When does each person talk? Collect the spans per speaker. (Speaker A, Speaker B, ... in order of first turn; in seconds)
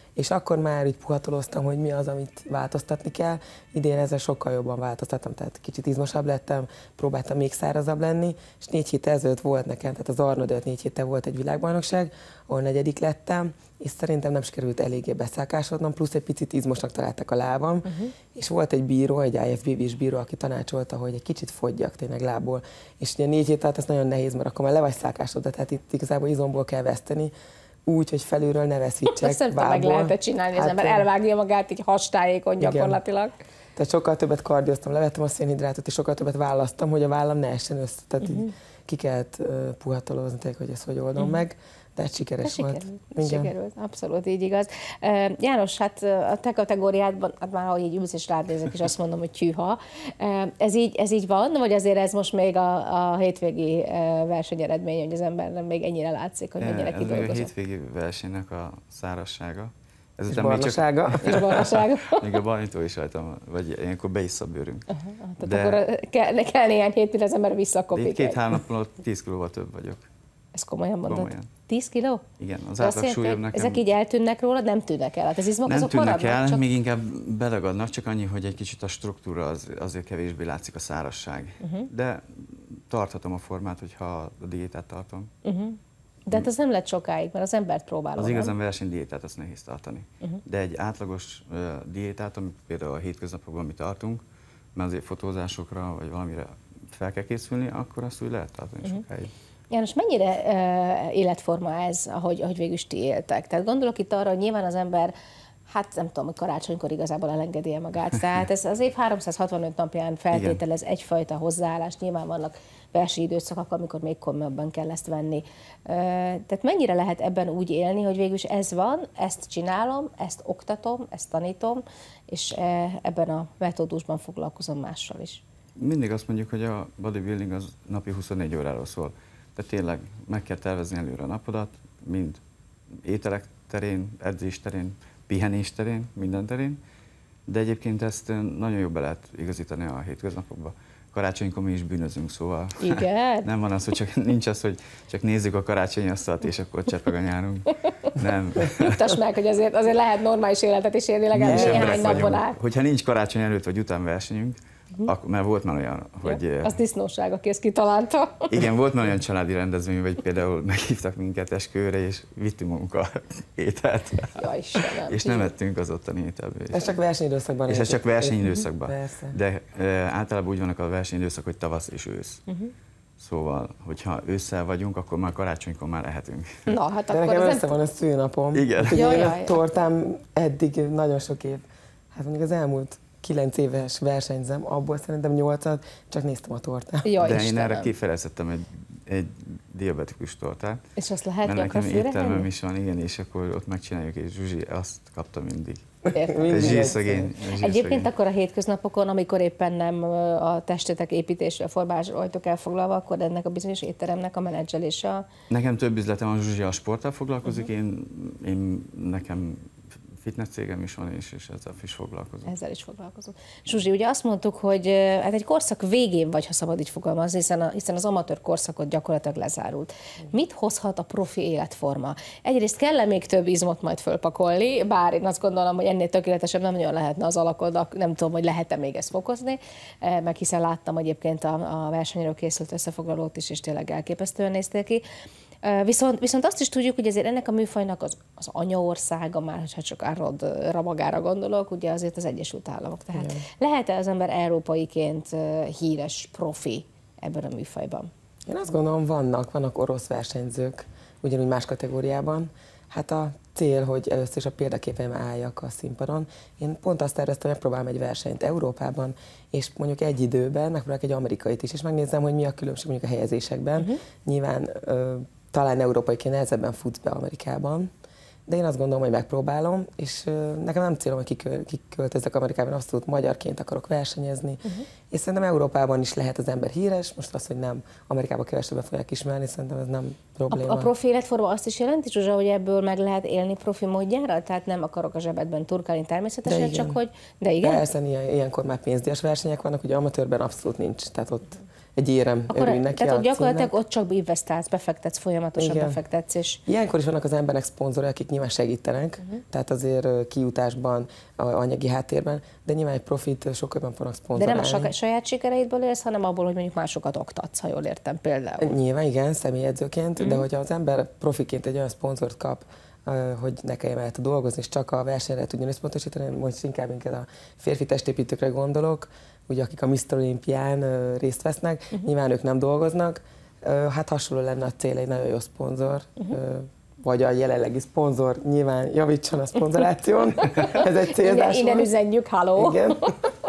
Speaker A: 0.2-27.3, 27.9-31.1, 32.6-33.0, 33.8-43.5, 60.3-61.5, 151.4-152.4, 166.7-169.4, 177.1-187.1, 196.0-197.3, 243.2-243.4, 248.5-267.9, 268.5-280.9, 286.4-287.0, 287.6-293.8, 295.6-296.0, 296.7-304.9, 308.6-331.9, 332.6-333.2
Speaker B: 17.9-18.1, 29.1-33.4, 38.2-38.5, 42.4-57.5, 61.2-62.4, 64.9-68.4, 70.5-72.2, 72.8-76.6, 81.6-81.9, 85.4-88.5, 99.7-105.1, 105.7-125.4, 142.8-143.5, 147.7-148.1, 148.7-152.6, 156.2-158.5, 164.4-165.5, 176.7-177.7, 178.9-179.6, 187.1-187.9, 191.0-192.5, 196.1-197.0, 197.6-205.2, 212.5-235.0, 235.6-248.1, 280.5-287.8, 292.5-296.6, 304.4-308.8, 310.2-310.4, 330.4-333.2
Speaker C: 56.6-64.9, 65.4-65.8, 67.9-70.0, 71.0-71.5, 72.4-73.9, 75.7-85.3, 88.2-94.2, 94.8-99.3, 110.3-110.6, 125.8-132.4, 133.0-136.8, 137.5-149.1, 151.3-156.8, 158.5-166.9, 167.7-172.4, 173.2-176.7, 178.5-179.3, 187.2-190.8, 191.4-195.8, 196.5-198.1, 205.5-209.7, 210.2-212.5